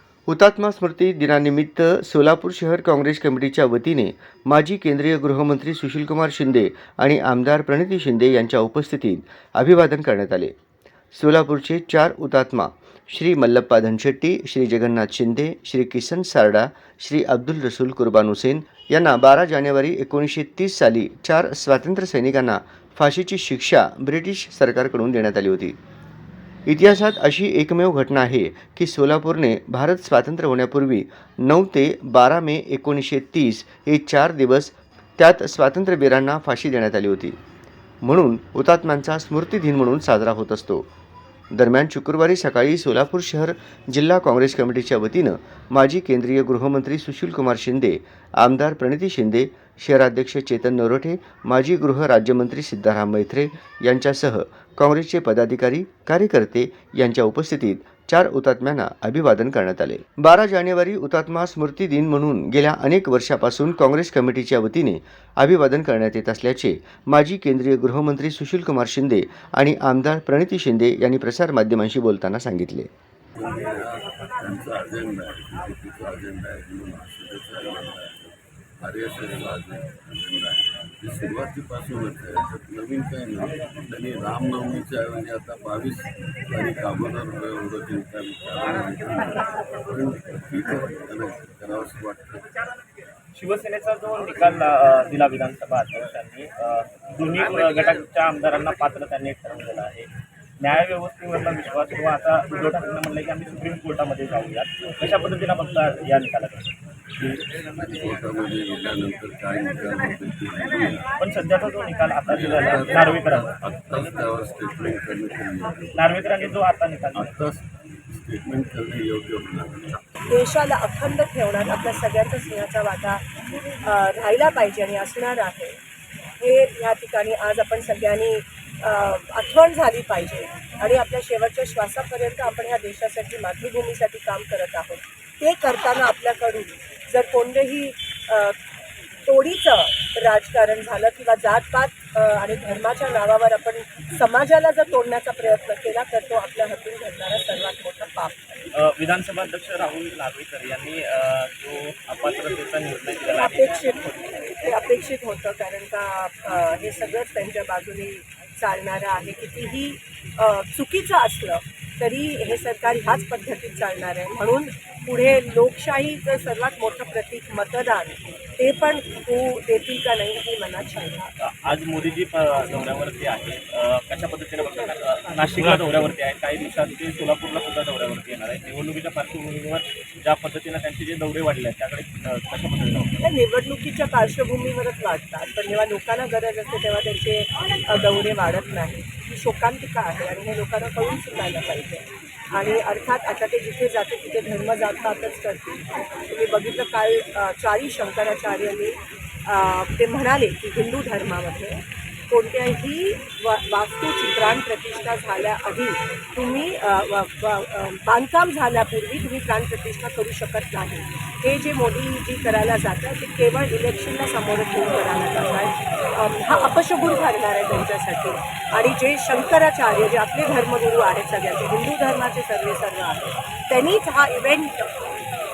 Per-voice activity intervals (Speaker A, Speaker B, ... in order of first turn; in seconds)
Speaker A: 0.3-10.5, 11.1-25.8, 26.7-37.4, 38.0-40.9, 41.5-72.9
Speaker B: 73.3-92.6, 107.2-111.1, 112.2-116.0, 117.1-120.1
Speaker C: 93.3-106.7, 111.1-113.5, 115.9-117.3, 148.7-154.5, 171.4-183.2
Speaker D: 120.2-123.2, 123.8-125.8, 126.4-138.6, 139.2-148.6, 153.3-171.3, 174.6-175.3, 183.2-225.0